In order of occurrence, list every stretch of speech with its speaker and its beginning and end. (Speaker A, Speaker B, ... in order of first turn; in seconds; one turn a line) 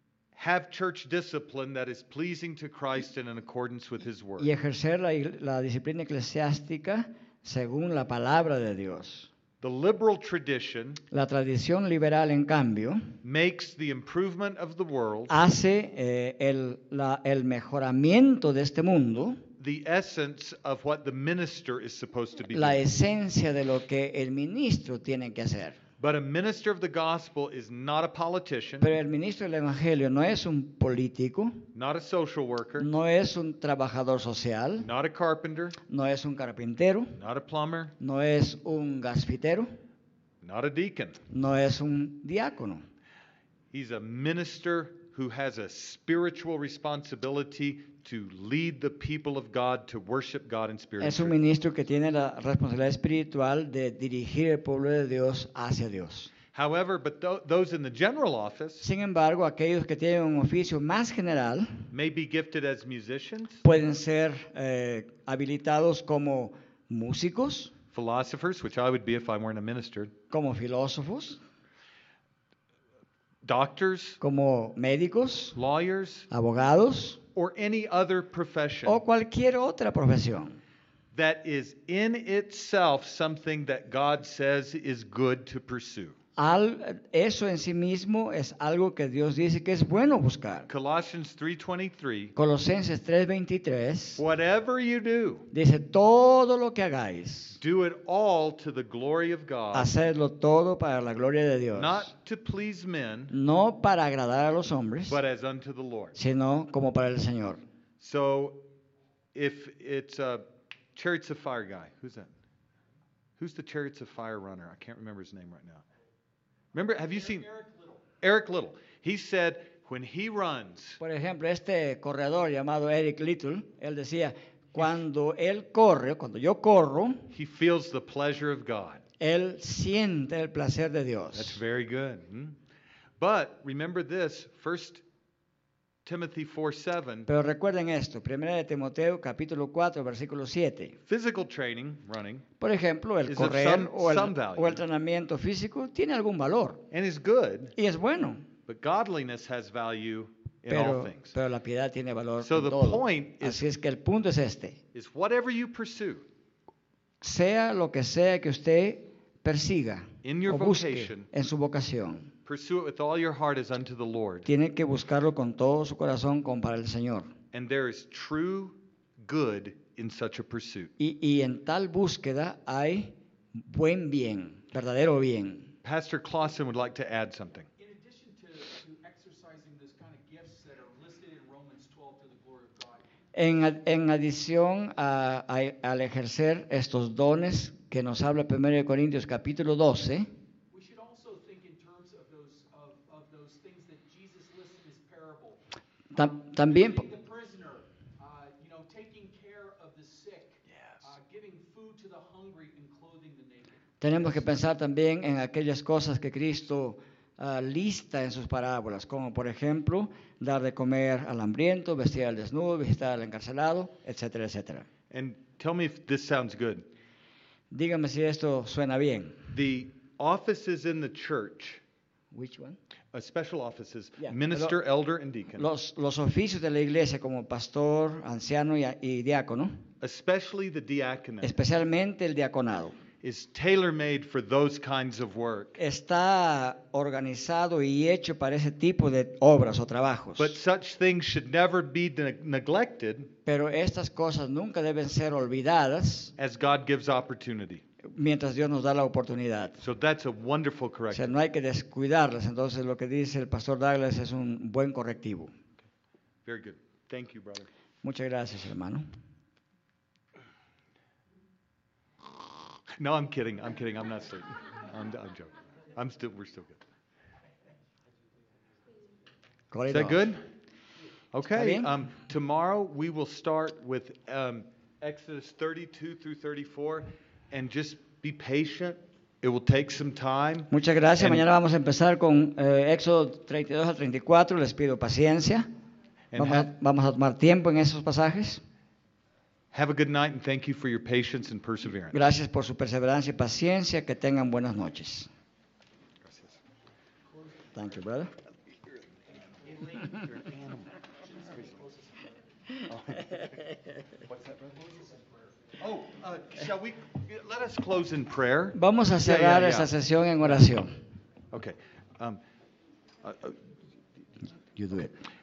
Speaker A: 0.3-4.5
Speaker B: 4.4-9.3
Speaker A: 9.6-11.0
Speaker B: 11.1-13.2
Speaker A: 13.2-15.3
Speaker B: 15.3-19.4
Speaker A: 19.6-22.8
Speaker B: 22.5-25.8
Speaker A: 26.0-28.9
Speaker B: 28.8-31.7
Speaker A: 31.7-32.9
Speaker B: 32.8-34.9
Speaker A: 34.8-35.8
Speaker B: 35.9-37.2
Speaker A: 37.2-37.9
Speaker B: 38.0-39.7
Speaker A: 40.4-41.2
Speaker B: 41.3-42.9
Speaker A: 43.7-51.4
Speaker B: 51.0-56.3
Speaker A: 56.5-58.9
Speaker B: 58.8-61.9
Speaker A: 61.9-63.6
Speaker B: 63.6-67.7
Speaker A: 67.9-70.1
Speaker B: 70.3-71.4
Speaker A: 73.4-74.2
Speaker B: 74.2-75.6
Speaker A: 75.5-76.3
Speaker B: 76.3-77.2
Speaker A: 77.3-79.0
Speaker B: 78.8-80.6
Speaker A: 81.1-86.2
Speaker B: 86.3-90.7
Speaker A: 90.7-92.3
Speaker B: 92.3-94.2
Speaker A: 94.2-95.5
Speaker B: 95.5-97.6
Speaker A: 97.6-99.9
Speaker B: 99.7-102.1
Speaker A: 101.7-103.3
Speaker B: 103.3-105.2
Speaker A: 105.1-106.2
Speaker B: 106.1-107.6
Speaker A: 108.0-108.6
Speaker A: 109.3-112.3
Speaker A: 113.4-115.8
Speaker A: 116.7-117.5
Speaker C: 117.0-118.0
Speaker A: 118.2-121.0
Speaker B: 121.0-127.3
Speaker A: 127.3-129.0
Speaker B: 129.2-131.6
Speaker A: 131.3-132.6
Speaker A: 133.2-135.0
Speaker A: 136.1-137.3
Speaker B: 137.3-140.9
Speaker A: 141.1-142.4
Speaker B: 142.6-146.8
Speaker A: 143.3-144.8
Speaker A: 146.9-147.7
Speaker B: 147.8-148.5
Speaker A: 148.7-151.3
Speaker B: 150.7-154.8
Speaker A: 152.4-153.6
Speaker A: 154.9-156.3
Speaker B: 157.2-162.3
Speaker A: 160.2-161.3
Speaker A: 162.4-164.5
Speaker B: 164.4-167.3
Speaker A: 167.5-170.9
Speaker B: 171.0-175.7
Speaker A: 175.8-177.7
Speaker C: 177.8-183.1
Speaker B: 183.3-190.3
Speaker C: 190.7-195.6
Speaker B: 196.1-197.1
Speaker C: 196.1-204.5
Speaker A: 200.7-201.1
Speaker B: 204.0-214.9
Speaker A: 215.1-216.8
Speaker B: 217.7-219.5
Speaker A: 219.5-221.8
Speaker B: 222.3-222.8
Speaker A: 223.1-225.7
Speaker B: 224.2-224.8
Speaker B: 225.6-229.8
Speaker A: 230.0-231.6
Speaker B: 231.4-233.0
Speaker A: 233.2-235.8
Speaker B: 235.8-240.6
Speaker A: 240.4-243.3
Speaker B: 243.4-246.3
Speaker A: 246.4-247.8
Speaker B: 248.0-249.8
Speaker A: 249.8-251.3
Speaker B: 251.1-255.5
Speaker A: 256.4-257.7
Speaker B: 258.0-259.1
Speaker A: 263.0-266.8
Speaker B: 269.7-270.3
Speaker A: 269.9-270.4
Speaker A: 271.3-281.4
Speaker B: 271.5-271.9
Speaker B: 280.7-285.7
Speaker A: 286.3-286.7
Speaker B: 286.4-288.6
Speaker A: 289.7-292.2
Speaker B: 292.1-295.3
Speaker A: 296.2-296.6
Speaker C: 297.4-297.7
Speaker B: 297.7-298.3
Speaker C: 299.6-300.3
Speaker A: 299.9-301.0
Speaker C: 301.1-302.4
Speaker A: 302.9-303.5
Speaker A: 304.3-304.7
Speaker C: 304.7-305.6
Speaker A: 305.8-309.9
Speaker B: 308.7-310.9
Speaker A: 311.5-312.4
Speaker A: 313.2-313.6
Speaker B: 314.8-315.1